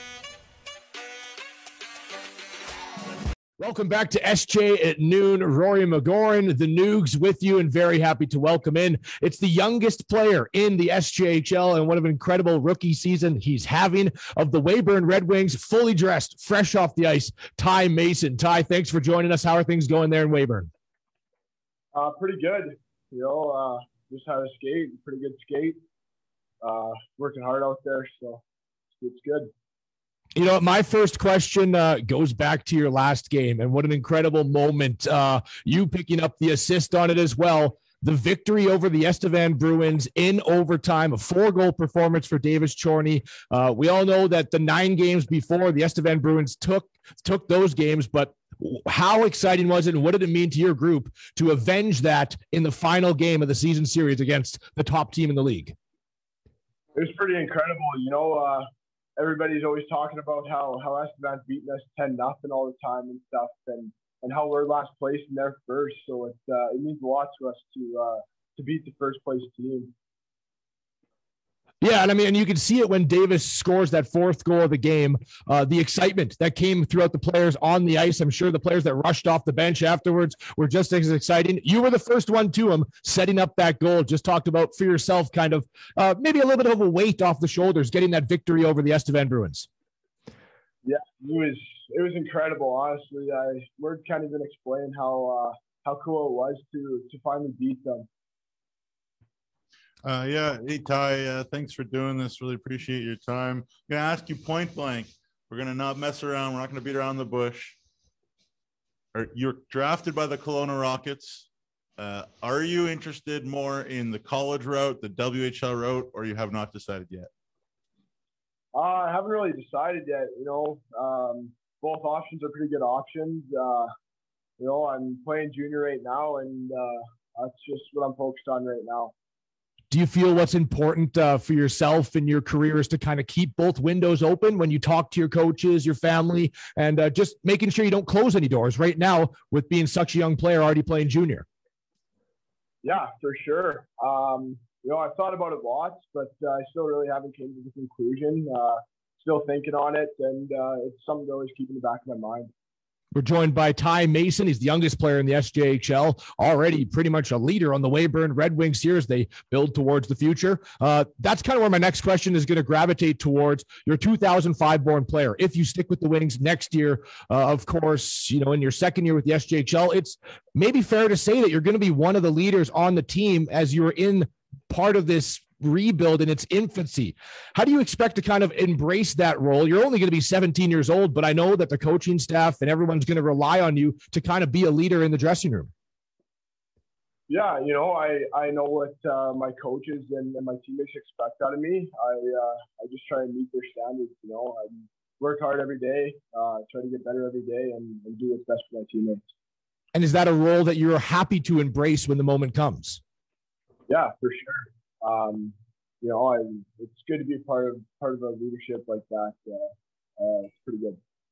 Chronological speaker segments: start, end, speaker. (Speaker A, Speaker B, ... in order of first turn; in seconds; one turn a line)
Speaker A: 3.6-20.7
Speaker B: 21.9-25.8
Speaker B: 26.6-28.4
Speaker B: 29.0-29.5
Speaker A: 30.4-55.7
Speaker B: 56.9-69.9
Speaker A: 71.8-89.7
Speaker B: 90.8-98.1
Speaker C: 100.0-107.8
Speaker C: 109.1-117.3
Speaker B: 118.7-123.9
Speaker B: 124.6-129.1
Speaker A: 129.9-141.4
Speaker B: 142.8-152.5
Speaker A: 153.1-185.7
Speaker B: 187.3-199.3
Speaker A: 199.9-203.0
Speaker B: 203.9-211.0